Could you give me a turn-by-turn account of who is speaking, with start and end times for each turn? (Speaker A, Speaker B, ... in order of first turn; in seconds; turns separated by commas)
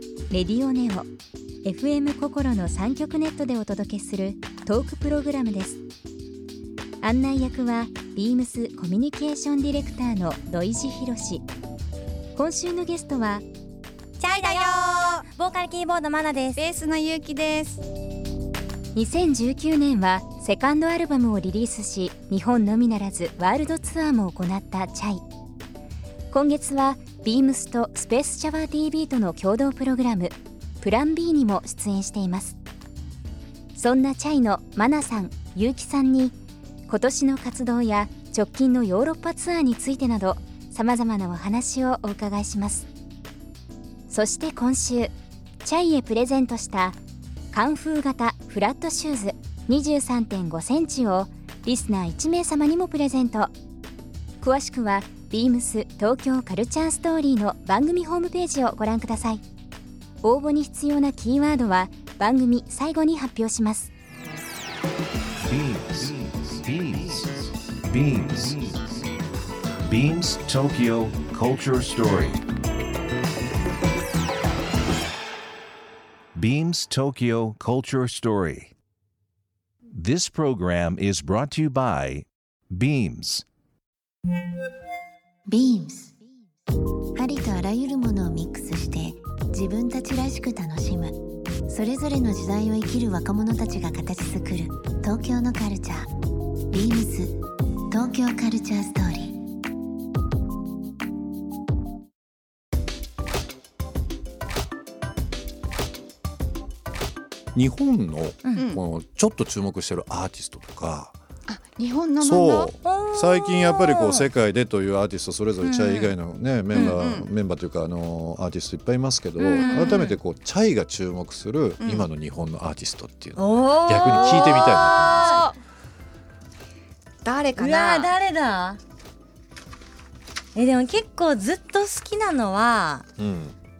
Speaker A: 0.3-1.1, Speaker A: 1.6-5.8, Speaker A: 7.0-11.4, Speaker A: 12.3-13.4, Speaker B: 14.2-16.6, Speaker C: 14.3-14.8, Speaker C: 16.6-17.8, Speaker A: 18.9-25.2, Speaker A: 26.3-32.6, Speaker A: 33.8-36.4, Speaker A: 36.9-42.9, Speaker A: 44.1-45.1, Speaker A: 45.6-47.0, Speaker A: 47.5-53.5, Speaker A: 54.4-59.4, Speaker A: 60.2-63.9, Speaker D: 65.4-69.0, Speaker D: 69.9-72.5, Speaker D: 76.3-78.7, Speaker D: 79.9-83.5, Speaker E: 85.5-86.1, Speaker E: 87.2-91.2, Speaker E: 91.7-96.1, Speaker E: 96.7-97.4, Speaker E: 97.9-99.4, Speaker F: 107.5-111.2, Speaker C: 111.5-112.7, Speaker F: 112.2-125.4, Speaker B: 112.8-114.2, Speaker B: 115.6-116.2, Speaker C: 116.7-117.3, Speaker B: 119.4-120.1, Speaker C: 119.6-120.2, Speaker C: 121.8-122.1, Speaker B: 123.4-125.4, Speaker C: 124.0-125.6, Speaker C: 127.2-128.1, Speaker B: 127.6-128.8, Speaker B: 130.6-133.1, Speaker F: 133.2-133.6